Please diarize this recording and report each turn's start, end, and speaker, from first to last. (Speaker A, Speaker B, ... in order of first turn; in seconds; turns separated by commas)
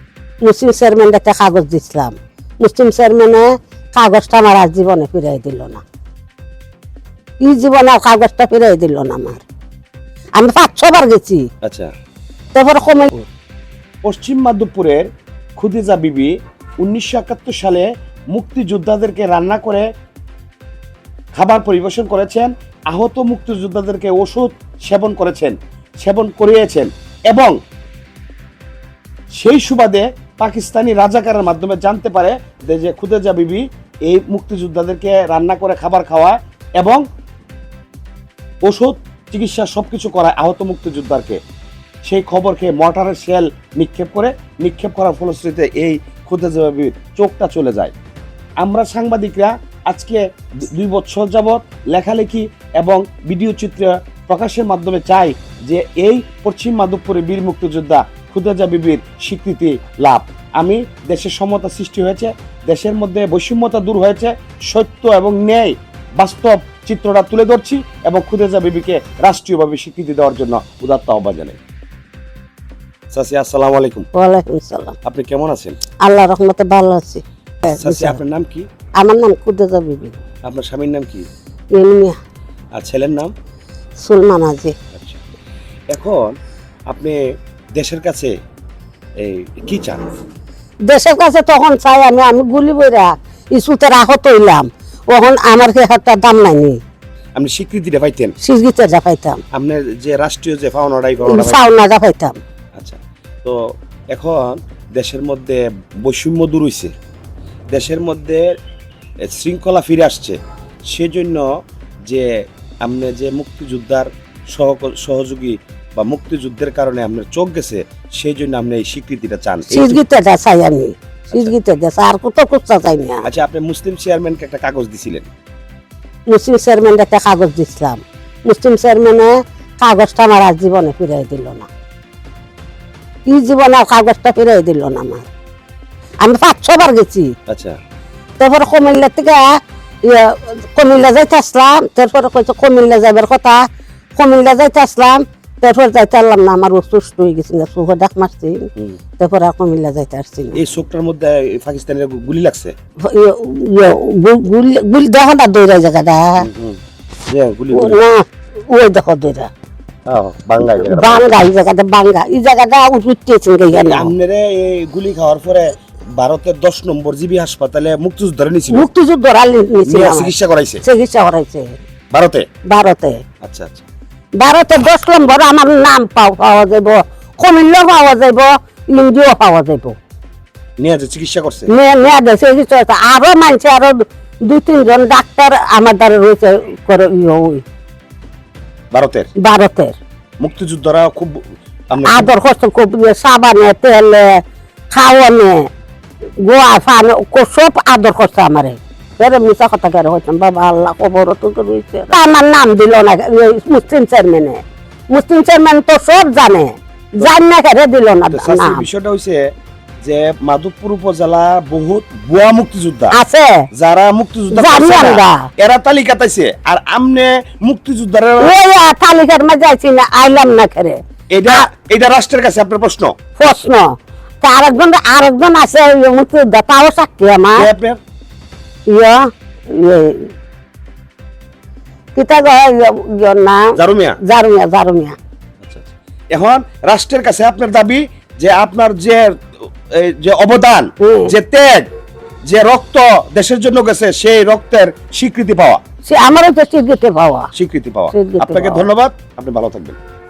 Speaker A: 0.4-5.8, Speaker A: 7.4-9.4, Speaker A: 10.4-11.4, Speaker B: 11.6-11.9, Speaker A: 12.6-13.3, Speaker B: 14.1-15.1, Speaker B: 15.6-19.9, Speaker B: 21.4-27.6, Speaker B: 29.4-37.0, Speaker B: 38.7-41.4, Speaker B: 42.1-47.9, Speaker B: 48.6-71.6, Speaker B: 73.1-74.1, Speaker A: 74.2-75.0, Speaker B: 75.0-75.8, Speaker A: 76.0-78.2, Speaker B: 77.7-78.7, Speaker A: 79.0-80.2, Speaker B: 80.5-81.3, Speaker A: 81.7-82.2, Speaker B: 82.8-83.3, Speaker A: 84.0-84.8, Speaker B: 84.9-85.2, Speaker B: 85.9-86.4, Speaker B: 86.9-87.2, Speaker B: 87.8-88.3, Speaker B: 89.2-90.2, Speaker A: 90.9-96.8, Speaker B: 97.4-98.3, Speaker A: 98.4-99.4, Speaker B: 99.5-101.6, Speaker A: 101.2-102.4, Speaker B: 102.8-106.9, Speaker B: 107.7-108.5, Speaker B: 109.3-110.4, Speaker B: 110.9-111.5, Speaker B: 112.1-120.0, Speaker A: 119.7-123.2, Speaker B: 123.2-125.3, Speaker A: 126.3-131.7, Speaker A: 133.3-135.3, Speaker A: 136.2-137.3, Speaker B: 137.5-137.8, Speaker A: 138.4-143.6, Speaker A: 144.2-148.7, Speaker A: 149.2-150.6, Speaker B: 150.6-152.7, Speaker A: 153.0-156.5, Speaker B: 156.4-158.0, Speaker A: 157.7-159.5, Speaker B: 160.1-161.3, Speaker A: 160.7-164.1, Speaker B: 163.7-168.9, Speaker A: 168.7-170.3, Speaker B: 169.9-170.8, Speaker A: 170.8-171.8, Speaker B: 172.1-172.5, Speaker A: 172.7-173.2, Speaker B: 173.4-173.9, Speaker A: 174.4-180.0, Speaker B: 180.8-181.7, Speaker A: 181.7-187.6, Speaker B: 188.9-189.3, Speaker A: 189.4-190.0, Speaker B: 190.4-192.3, Speaker A: 192.0-194.4, Speaker A: 194.9-195.7, Speaker A: 196.4-208.9, Speaker B: 208.3-209.4, Speaker B: 210.0-213.2, Speaker A: 213.1-213.7, Speaker B: 213.7-218.5, Speaker A: 214.5-215.5, Speaker A: 218.4-221.7, Speaker B: 221.3-223.7, Speaker A: 223.4-227.7, Speaker B: 227.6-228.0, Speaker A: 228.9-230.3, Speaker A: 232.2-233.7, Speaker B: 233.8-234.2, Speaker A: 234.2-235.2, Speaker B: 235.6-241.9, Speaker A: 241.0-241.3, Speaker B: 242.5-245.8, Speaker A: 246.1-247.5, Speaker B: 247.6-250.0, Speaker A: 248.1-248.8